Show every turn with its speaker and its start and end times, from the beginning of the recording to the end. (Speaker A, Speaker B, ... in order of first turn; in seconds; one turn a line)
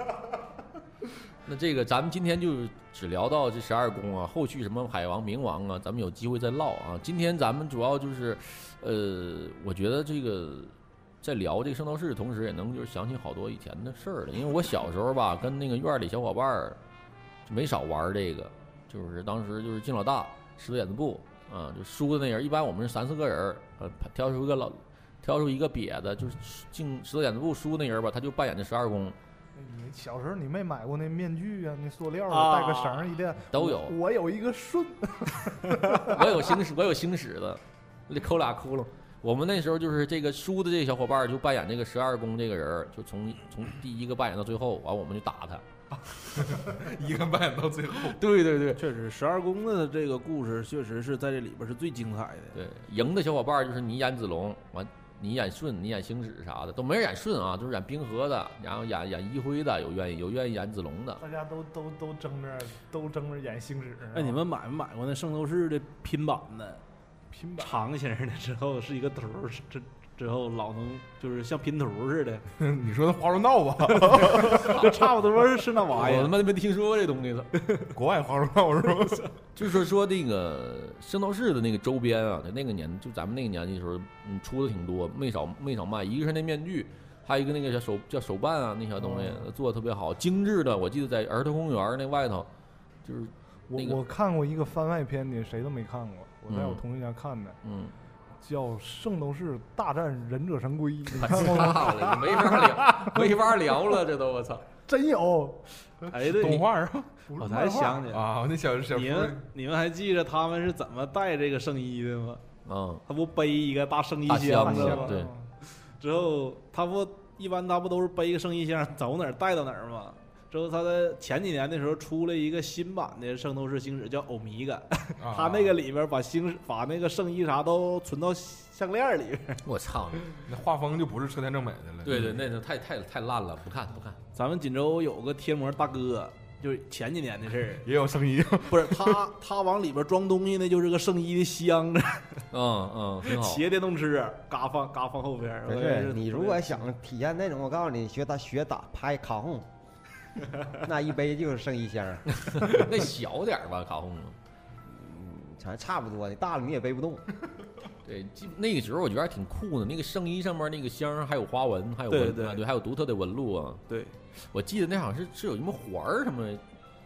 Speaker A: 1.5-16.8
Speaker A: 17.5-29.2
Speaker B: 29.6-36.3
Speaker C: 32.3-33.1
Speaker A: 33.5-34.0
Speaker A: 36.1-45.6
Speaker D: 46.1-48.2
Speaker A: 48.1-48.8
Speaker C: 48.8-52.6
Speaker A: 52.5-61.2
Speaker B: 61.2-64.4
Speaker C: 64.1-66.8
Speaker B: 67.3-67.8
Speaker C: 67.6-72.5
Speaker D: 72.6-74.9
Speaker C: 73.9-76.4
Speaker A: 74.6-74.9
Speaker A: 75.9-77.5
Speaker D: 77.9-79.3
Speaker A: 79.6-92.5
Speaker B: 89.0-89.5
Speaker A: 93.0-94.0
Speaker B: 93.7-97.6
Speaker A: 96.5-96.8
Speaker A: 97.6-97.9
Speaker B: 98.4-104.0
Speaker A: 101.1-104.7
Speaker B: 104.9-106.1
Speaker C: 106.1-106.7
Speaker D: 106.2-107.2
Speaker B: 107.3-108.1
Speaker C: 107.4-108.2
Speaker D: 108.1-109.5
Speaker C: 108.9-112.4
Speaker A: 112.7-113.0
Speaker C: 113.1-129.6
Speaker A: 114.3-115.3
Speaker B: 114.6-115.5
Speaker D: 125.2-125.8
Speaker A: 129.6-130.3
Speaker D: 130.5-132.3
Speaker A: 132.0-134.2
Speaker C: 134.3-137.9
Speaker D: 137.8-139.3
Speaker C: 138.7-142.4
Speaker A: 142.5-143.6
Speaker C: 143.2-146.8
Speaker E: 145.7-149.7
Speaker E: 150.7-152.3
Speaker A: 152.3-154.4
Speaker E: 154.8-157.2
Speaker A: 158.1-163.8
Speaker C: 162.1-162.6
Speaker C: 163.9-164.1
Speaker A: 164.4-166.6